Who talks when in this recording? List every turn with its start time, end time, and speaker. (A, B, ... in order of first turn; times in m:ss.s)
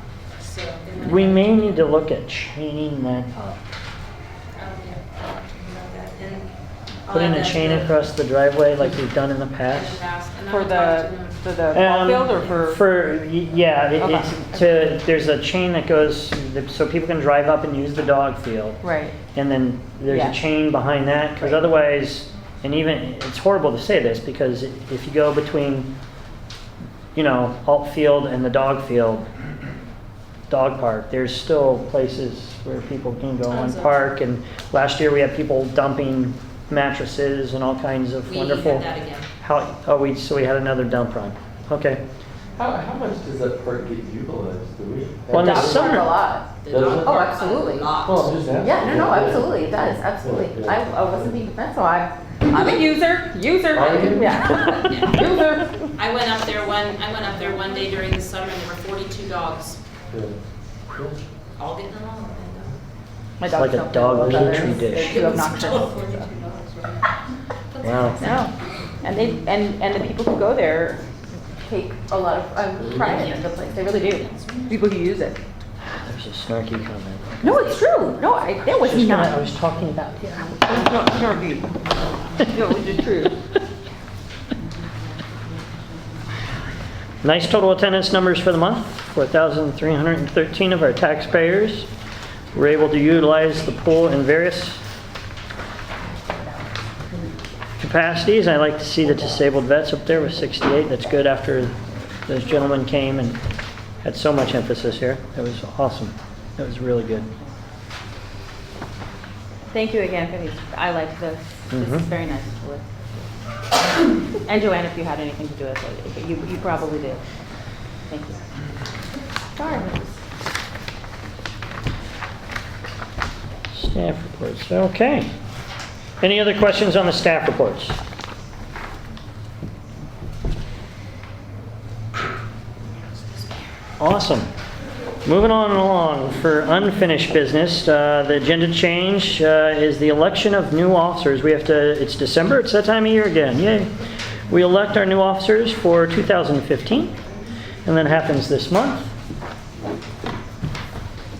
0:00.3-0:01.8 A
0:01.0-0:03.6 B
0:04.6-0:06.5 A
0:07.1-0:10.0 B
0:07.1-0:07.9 A
0:09.7-0:11.4 A
0:10.5-0:12.8 C
0:11.7-0:18.8 B
0:13.9-0:15.0 C
0:18.8-0:19.2 C
0:19.3-0:25.9 B
0:20.1-0:20.4 C
0:21.4-0:21.7 C
0:27.1-0:29.3 B
0:30.5-0:38.9 B
0:33.5-0:33.9 A
0:38.2-0:39.3 A
0:39.4-0:42.0 B
0:42.6-0:46.1 D
0:45.3-0:46.1 B
0:45.3-0:48.0 C
0:46.6-0:48.2 A
0:46.7-0:47.3 D
0:48.0-0:49.7 D
0:48.6-0:55.9 C
0:50.2-0:51.3 D
0:53.7-0:54.6 D
0:54.7-0:55.1 A
0:56.0-0:59.8 A
1:00.1-1:00.4 D
1:01.6-1:02.7 A
1:03.4-1:06.4 C
1:03.4-1:05.4 B
1:05.0-1:05.9 A
1:07.7-1:08.5 A
1:07.8-1:08.2 B
1:08.2-1:08.5 C
1:09.0-1:11.0 C
1:11.6-1:15.4 C
1:12.8-1:13.2 D
1:15.8-1:18.1 B
1:17.4-1:19.5 C
1:18.7-1:20.6 B
1:20.6-1:21.8 C
1:22.4-1:23.3 C
1:27.2-1:31.9 B
1:32.5-1:34.8 B
1:37.8-1:41.7 B
1:42.3-1:43.4 B
1:44.0-1:47.3 B
1:49.7-1:52.9 C
1:51.7-1:52.1 B
1:54.4-1:57.2 C
1:58.1-1:58.4 C
1:59.6-2:00.2 C
2:03.7-2:05.3 B
2:06.2-2:08.0 B
2:14.0-2:14.5 B
2:15.2-2:23.9 B
2:24.5-2:27.1 B
2:27.8-2:29.1 B